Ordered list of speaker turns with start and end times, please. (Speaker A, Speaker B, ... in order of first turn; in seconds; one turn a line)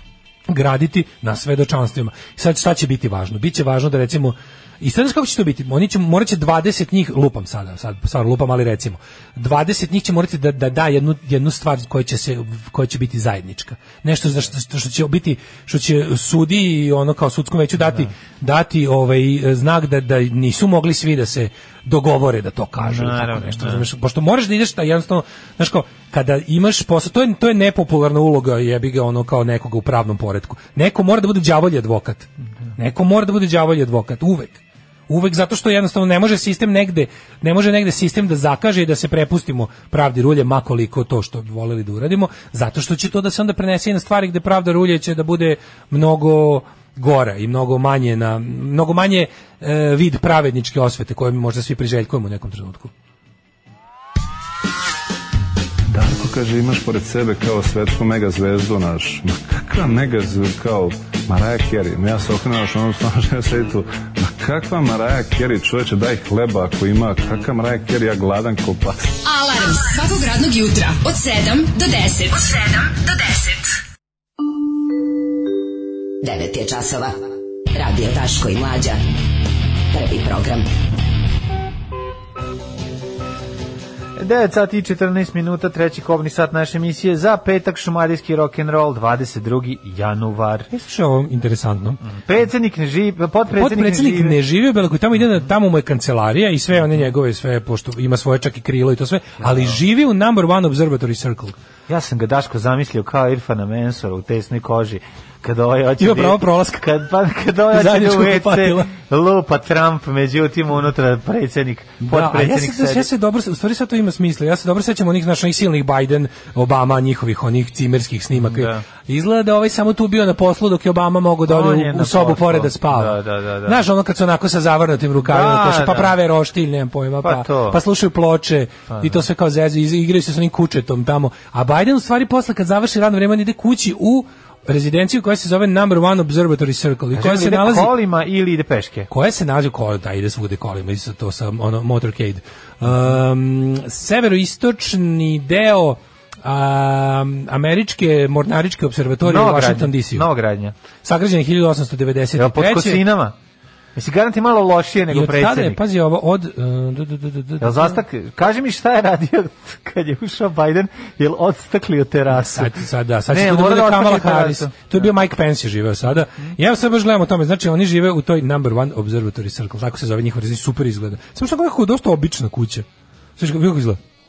Speaker A: 0.5-52.9
Speaker B: 22.8-23.9
Speaker C: 55.9-69.1
Speaker D: 69.2-73.7
Speaker E: 76.2-79.0
Speaker E: 79.9-80.7
Speaker B: 84.2-90.7
Speaker A: 90.7-92.0
Speaker B: 92.0-94.3
Speaker A: 93.5-101.5
Speaker B: 99.4-99.8
Speaker B: 101.9-113.1
Speaker A: 106.0-106.9
Speaker A: 107.7-108.9
Speaker A: 112.0-137.9
Speaker B: 118.4-118.8
Speaker B: 121.5-123.8
Speaker B: 125.2-126.1
Speaker B: 127.2-127.8
Speaker B: 128.9-129.2
Speaker B: 137.1-139.1
Speaker A: 139.1-150.3
Speaker B: 149.2-150.7
Speaker A: 151.0-153.0
Speaker B: 152.3-153.3
Speaker B: 153.9-155.8
Speaker A: 155.1-158.0
Speaker B: 157.6-165.1
Speaker A: 162.3-172.8
Speaker B: 166.2-166.5
Speaker A: 173.4-174.0